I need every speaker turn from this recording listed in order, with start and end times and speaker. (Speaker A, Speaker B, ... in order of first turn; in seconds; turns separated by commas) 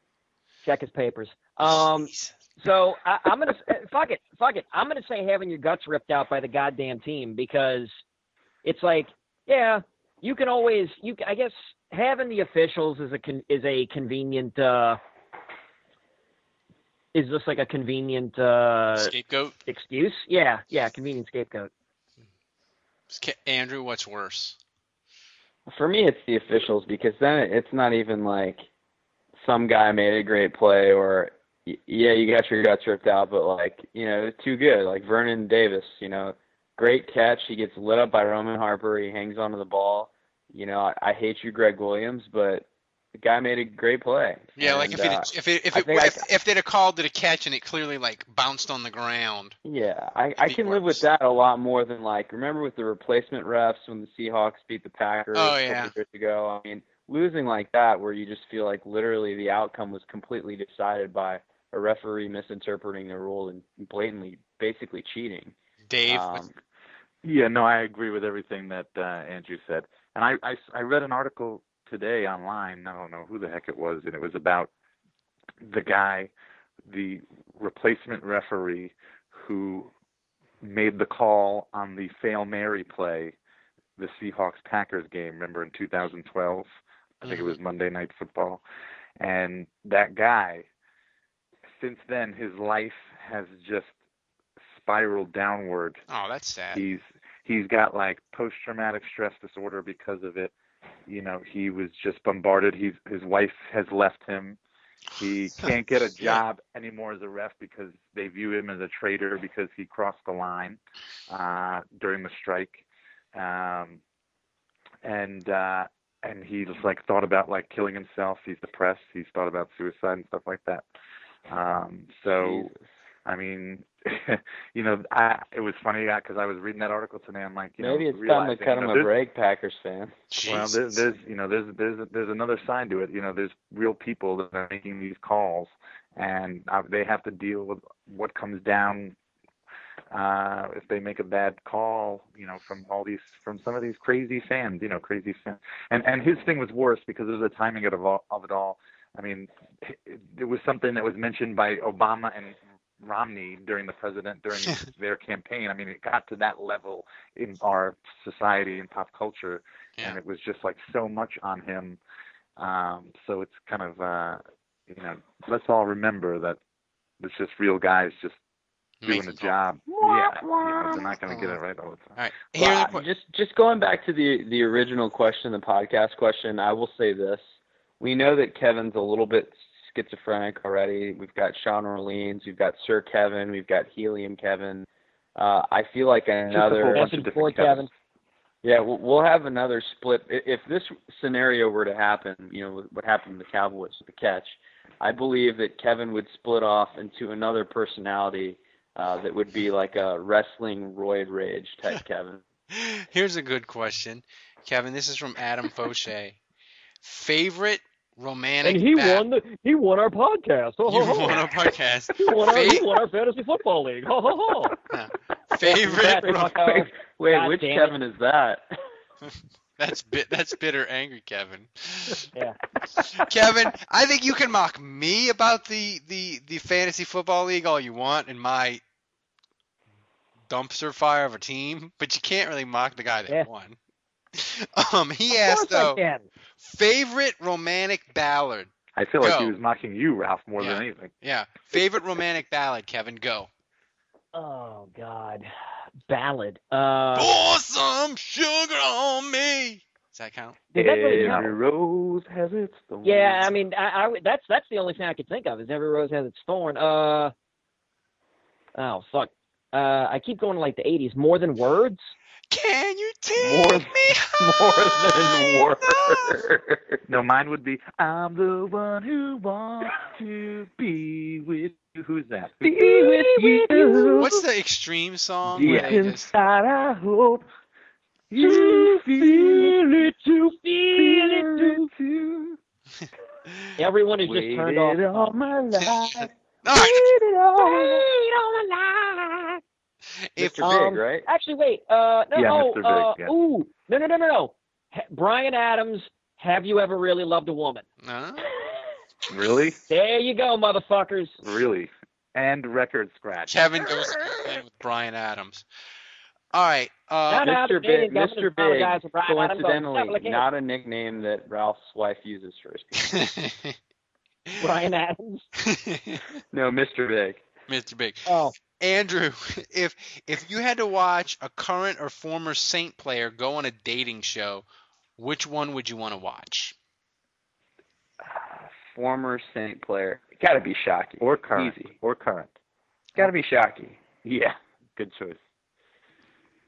Speaker A: 0.6-8.0, Speaker B: 1.6-2.4, Speaker A: 8.6-15.0, Speaker A: 17.1-19.1, Speaker B: 18.9-19.6, Speaker A: 19.7-21.7, Speaker B: 23.1-24.6, Speaker C: 25.7-28.6, Speaker C: 29.4-46.2, Speaker B: 44.6-49.6, Speaker C: 49.6-65.5, Speaker B: 50.4-51.0, Speaker B: 55.3-55.9, Speaker B: 65.9-66.4, Speaker C: 66.1-66.5, Speaker D: 67.2-74.7, Speaker D: 75.6-76.3, Speaker D: 76.8-79.9, Speaker D: 80.6-83.3, Speaker D: 84.0-86.7, Speaker D: 87.2-88.6, Speaker B: 87.2-87.6, Speaker D: 89.2-90.7, Speaker D: 91.8-93.9, Speaker D: 94.7-96.0, Speaker B: 96.1-96.8, Speaker D: 96.7-100.5, Speaker D: 101.1-104.6, Speaker D: 105.2-112.8, Speaker B: 105.6-106.4, Speaker D: 113.3-114.0, Speaker D: 115.0-120.8, Speaker D: 121.5-122.7, Speaker C: 122.4-122.8, Speaker D: 123.2-129.1, Speaker C: 127.8-130.1, Speaker B: 130.3-130.8, Speaker D: 130.4-139.2, Speaker D: 140.1-162.0, Speaker D: 162.6-166.6, Speaker D: 167.2-168.4, Speaker B: 169.0-169.6, Speaker D: 169.1-172.2, Speaker C: 169.9-171.1, Speaker B: 171.3-171.6, Speaker B: 172.2-173.0, Speaker C: 172.6-177.4, Speaker C: 178.0-187.1, Speaker D: 186.5-187.9, Speaker A: 186.5-187.9, Speaker C: 188.6-202.4, Speaker B: 202.7-206.4, Speaker B: 207.0-209.2, Speaker A: 208.6-211.4, Speaker B: 210.8-212.9, Speaker A: 212.2-214.7, Speaker B: 214.9-216.5, Speaker A: 215.6-217.9, Speaker C: 215.9-218.7, Speaker B: 219.2-222.2, Speaker B: 223.1-228.8, Speaker B: 230.5-233.8, Speaker B: 234.3-236.0, Speaker A: 235.3-236.2, Speaker B: 236.6-239.6, Speaker D: 238.9-241.1, Speaker B: 240.6-243.5, Speaker A: 244.3-245.5, Speaker A: 246.1-247.3, Speaker B: 247.1-250.6, Speaker A: 250.7-251.5, Speaker C: 250.8-253.5, Speaker D: 251.1-251.5, Speaker A: 253.0-257.3, Speaker A: 258.8-262.1, Speaker B: 262.5-266.4, Speaker D: 263.5-263.9, Speaker C: 264.5-267.0, Speaker D: 267.1-274.3, Speaker C: 272.6-274.3, Speaker A: 273.0-273.7, Speaker B: 274.2-276.3, Speaker C: 275.5-276.7, Speaker D: 275.6-277.4, Speaker D: 278.3-280.1, Speaker C: 278.4-280.3, Speaker A: 280.6-281.5, Speaker C: 280.9-282.2, Speaker D: 281.3-282.5, Speaker A: 283.8-285.3, Speaker C: 284.2-288.0, Speaker B: 285.8-287.1, Speaker A: 287.6-289.6, Speaker B: 290.2-290.6, Speaker C: 290.4-291.2, Speaker A: 290.6-297.8, Speaker D: 292.3-293.3, Speaker B: 298.0-298.5, Speaker D: 299.3-299.8, Speaker A: 299.9-301.4, Speaker D: 301.4-303.7, Speaker B: 303.5-305.6, Speaker B: 306.5-307.5, Speaker A: 307.3-310.4, Speaker C: 307.4-313.1, Speaker B: 313.0-313.8, Speaker A: 314.6-315.4, Speaker B: 315.6-316.2, Speaker C: 316.5-317.4, Speaker B: 317.7-324.6, Speaker A: 318.3-318.5, Speaker B: 325.2-326.8, Speaker C: 328.3-331.9, Speaker D: 331.2-332.5, Speaker C: 333.1-334.0, Speaker D: 334.2-335.4